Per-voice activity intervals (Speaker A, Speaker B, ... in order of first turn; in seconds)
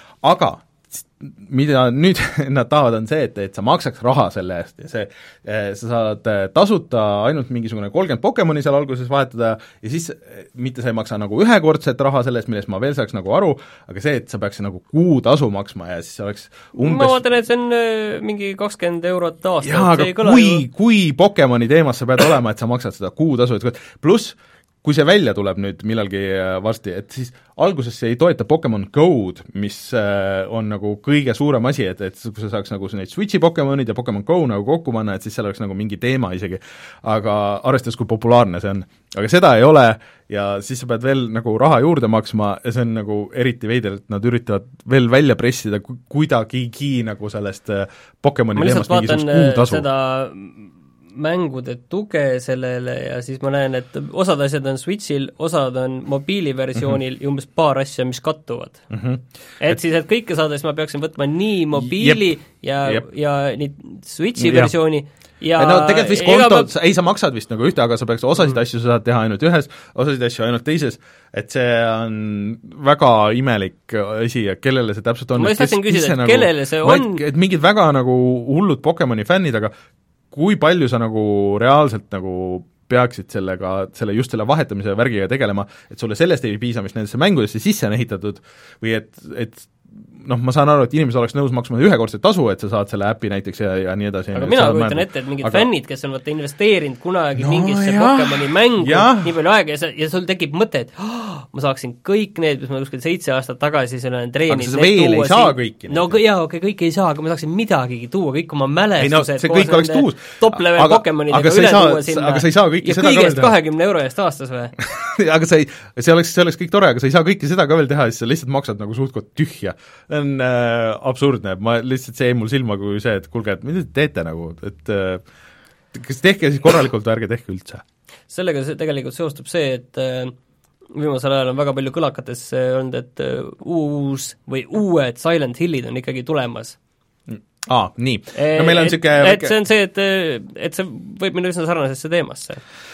Speaker A: 0.2-17.2, 19.6-49.9, 58.9-59.8, 61.7-63.0, 64.4-64.7, 65.6-79.7, 80.3-95.7, 97.4-99.3, 104.5-106.2, 109.0-113.5, 114.8-125.2, 125.9-127.8, 137.3-139.6
Speaker B: 16.8-20.6, 48.5-58.9, 59.6-66.7, 75.4-77.2, 94.3-114.8, 128.3-130.4, 130.9-136.8, 138.3-142.6